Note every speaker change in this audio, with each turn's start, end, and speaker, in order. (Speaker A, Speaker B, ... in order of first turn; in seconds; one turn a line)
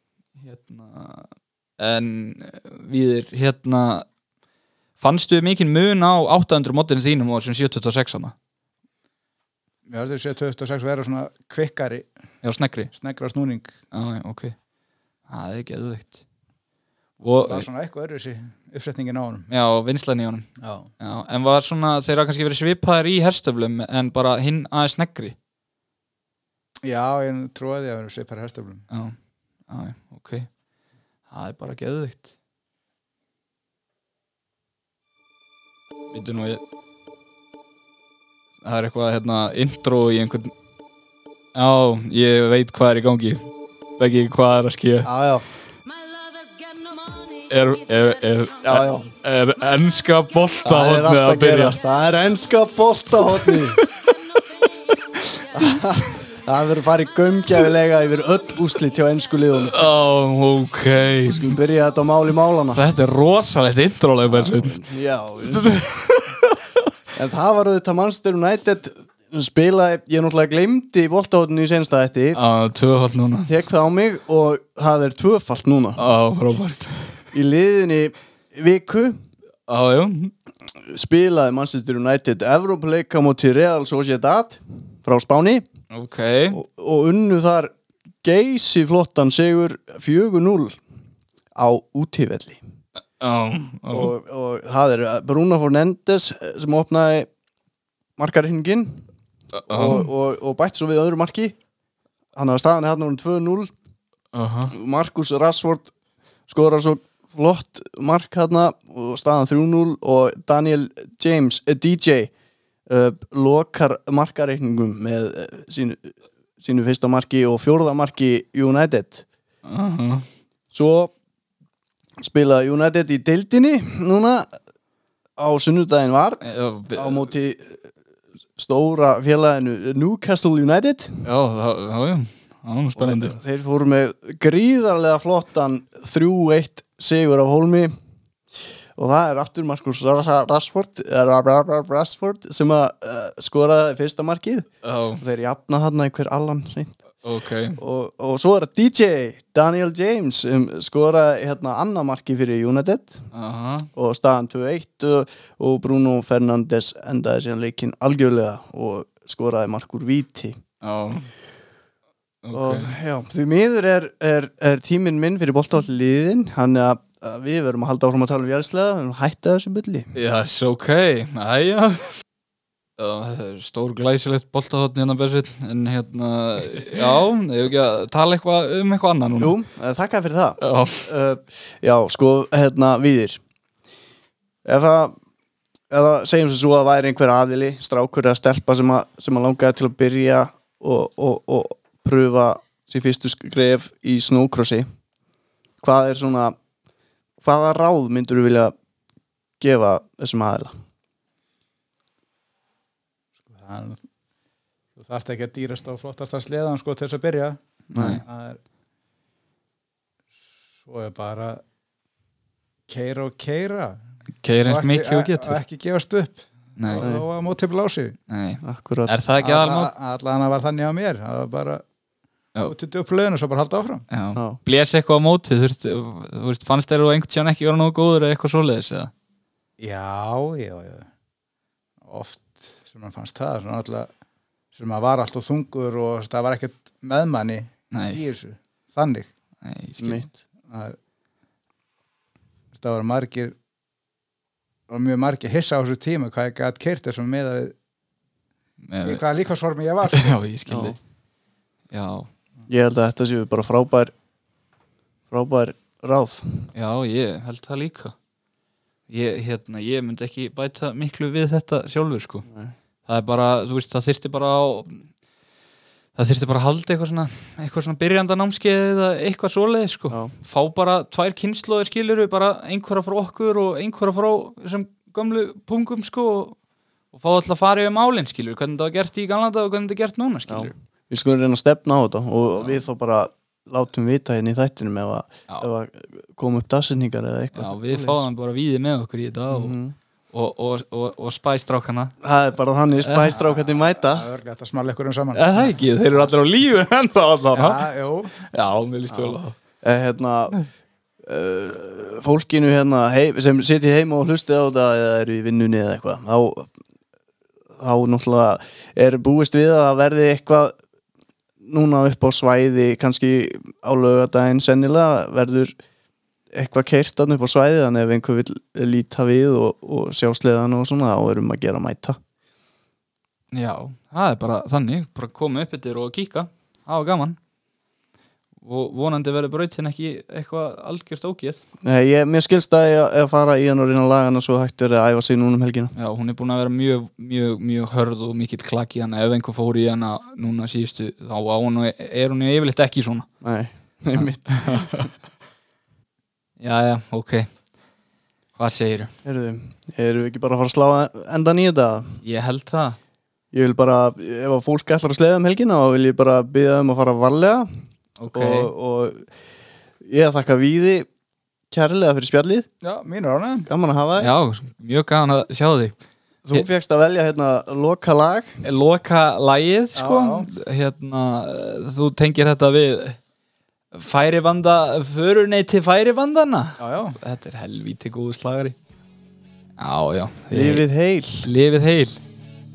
Speaker A: 0.4-4.0
Speaker A: 5.0-8.3
Speaker B: 9.9-12.1
Speaker A: 12.4-12.9
Speaker B: 12.9-13.7
Speaker A: 13.9-14.5
Speaker A: 15.3-16.2
Speaker A: 17.2-17.6
Speaker B: 17.4-19.5
Speaker A: 19.5-20.5
Speaker B: 20.6-20.9
Speaker A: 21.0-25.4
Speaker B: 26.8-28.8
Speaker A: 28.9-29.1
Speaker A: 29.7-30.5
Speaker A: 31.3-32.3
Speaker A: 36.1-36.6
Speaker A: 38.6-40.5
Speaker A: 41.5-43.5
Speaker A: 44.0-45.1
Speaker C: 45.0-45.4
Speaker A: 47.5-51.8
Speaker C: 48.6-49.1
Speaker C: 50.6-53.8
Speaker A: 53.4-54.1
Speaker C: 55.5-59.8
Speaker A: 59.6-61.6
Speaker C: 61.3-62.8
Speaker A: 62.7-64.8
Speaker C: 64.3-65.7
Speaker A: 65.4-66.6
Speaker C: 67.1-72.4
Speaker A: 72.3-73.5
Speaker C: 73.5-76.0
Speaker A: 76.0-77.2
Speaker C: 77.3-79.2
Speaker A: 79.7-80.3
Speaker C: 80.8-85.6
Speaker A: 85.9-86.6
Speaker C: 86.5-90.8
Speaker C: 91.5-92.6
Speaker A: 93.2-94.1
Speaker C: 93.9-97.3
Speaker C: 98.2-99.0
Speaker A: 99.5-100.1
Speaker C: 99.7-101.5
Speaker C: 102.3-103.7
Speaker A: 104.3-104.7
Speaker C: 104.7-105.9
Speaker C: 106.5-112.3
Speaker C: 112.9-119.2
Speaker A: 119.6-120.2
Speaker C: 120.7-121.1
Speaker C: 122.2-124.5
Speaker C: 125.4-126.4
Speaker A: 126.4-127.3
Speaker C: 126.9-127.9
Speaker C: 128.6-131.3
Speaker A: 131.2-133.4
Speaker C: 133.0-137.9
Speaker C: 138.9-147.0
Speaker A: 144.8-145.2
Speaker A: 147.2-147.8
Speaker C: 147.8-153.3
Speaker A: 153.3-153.9
Speaker C: 153.9-160.6
Speaker A: 160.8-161.3
Speaker A: 162.4-162.9
Speaker C: 162.5-170.1
Speaker A: 170.1-172.1
Speaker A: 173.0-179.6
Speaker C: 179.4-183.4
Speaker A: 180.6-181.1
Speaker C: 184.6-185.1
Speaker C: 185.9-194.8
Speaker C: 195.8-196.6
Speaker C: 197.4-198.7
Speaker C: 199.6-200.7
Speaker B: 203.5-204.0
Speaker B: 205.0-207.6
Speaker C: 207.9-208.2
Speaker A: 207.9-208.2
Speaker B: 208.2-208.6
Speaker B: 210.8-211.6
Speaker B: 212.9-214.0
Speaker A: 214.4-215.6
Speaker B: 214.6-218.2
Speaker A: 216.8-217.1
Speaker C: 217.0-217.2
Speaker A: 218.3-219.9
Speaker C: 218.6-219.1
Speaker B: 219.4-221.8
Speaker B: 222.6-224.0
Speaker A: 224.1-229.1
Speaker B: 229.8-231.1
Speaker B: 232.0-234.1
Speaker B: 234.7-239.3
Speaker A: 237.9-238.2
Speaker A: 239.6-240.2
Speaker C: 240.0-240.3
Speaker B: 240.7-241.0
Speaker B: 242.7-243.6
Speaker B: 244.9-247.7
Speaker A: 248.9-249.2
Speaker B: 249.0-250.3
Speaker A: 250.1-251.0
Speaker C: 250.7-250.9
Speaker A: 251.9-252.3
Speaker C: 252.7-254.1
Speaker C: 255.3-256.7
Speaker A: 256.7-258.1
Speaker A: 259.1-262.4
Speaker C: 262.5-262.7
Speaker A: 263.1-265.1
Speaker A: 266.1-276.6
Speaker A: 277.1-280.7
Speaker C: 280.5-288.2
Speaker A: 287.6-289.8
Speaker C: 289.5-289.9
Speaker A: 290.3-292.1
Speaker C: 292.2-294.2
Speaker A: 293.0-293.3
Speaker B: 293.4-295.9
Speaker A: 295.3-297.9
Speaker B: 297.5-298.3
Speaker A: 298.4-299.5
Speaker C: 299.1-300.6
Speaker C: 301.2-306.7
Speaker C: 307.8-310.7
Speaker C: 311.6-315.7
Speaker C: 316.5-322.2
Speaker A: 323.5-327.4
Speaker A: 328.6-331.6
Speaker C: 331.8-335.9
Speaker A: 335.9-343.2
Speaker C: 343.4-345.1
Speaker A: 344.1-345.1
Speaker A: 346.6-347.5
Speaker A: 348.6-349.1
Speaker C: 349.2-352.2
Speaker A: 352.2-353.0
Speaker C: 353.5-357.7
Speaker A: 358.2-358.7
Speaker C: 358.3-359.2
Speaker C: 360.0-361.1
Speaker C: 361.7-362.7
Speaker B: 362.8-363.7
Speaker C: 363.7-364.3
Speaker A: 364.2-365.9
Speaker C: 366.4-368.6
Speaker A: 368.6-373.2
Speaker B: 369.9-370.5
Speaker A: 373.9-378.8
Speaker B: 376.8-377.2
Speaker A: 379.8-382.2
Speaker C: 380.5-381.5